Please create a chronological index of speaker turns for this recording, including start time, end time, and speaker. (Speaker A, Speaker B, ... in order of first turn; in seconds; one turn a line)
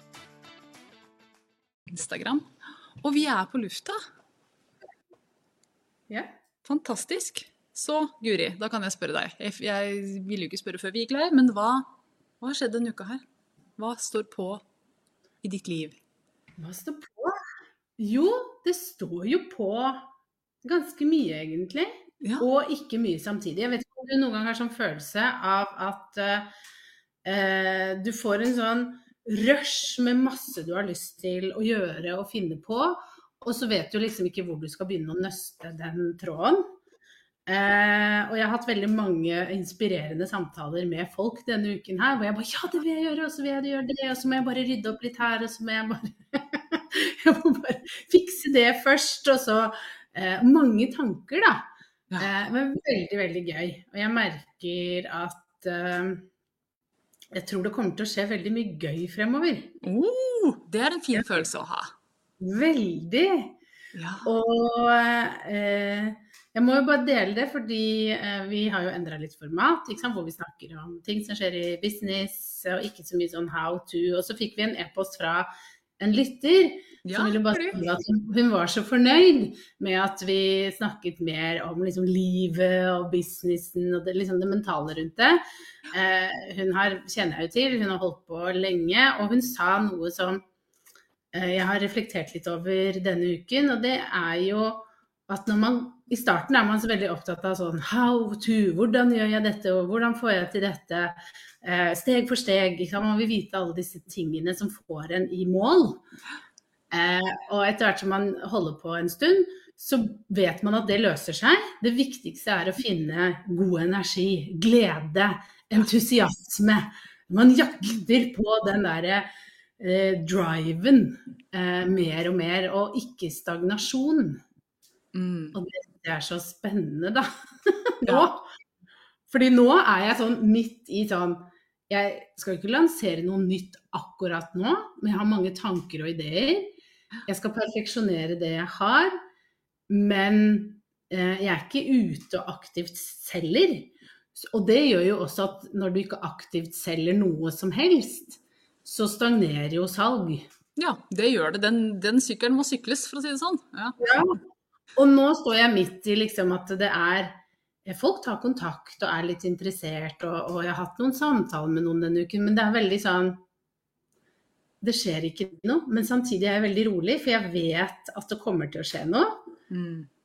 Speaker A: 1.9-2.5
Speaker A: 3.0-4.0
Speaker B: 6.1-6.3
Speaker A: 6.6-11.9
Speaker A: 12.4-13.2
Speaker A: 13.8-14.6
Speaker A: 15.4-16.0
Speaker B: 16.6-17.4
Speaker B: 18.0-20.1
Speaker B: 20.6-26.5
Speaker B: 27.2-36.7
Speaker B: 37.5-51.7
Speaker B: 52.2-56.3
Speaker B: 57.3-59.7
Speaker A: 59.8-61.9
Speaker B: 62.4-63.5
Speaker A: 64.0-64.3
Speaker B: 64.2-85.4
Speaker A: 77.0-77.8
Speaker B: 85.9-90.4
Speaker B: 91.3-106.0
Speaker B: 106.9-119.3
Speaker B: 119.8-124.4
Speaker A: 125.1-125.6
Speaker B: 125.5-128.5
Speaker B: 129.3-136.7
Speaker B: 137.3-139.2
Speaker B: 139.9-150.5
Speaker A: 150.8-154.2
Speaker B: 154.0-154.4
Speaker B: 155.0-163.4
Speaker B: 164.8-169.4
Speaker A: 169.7-170.1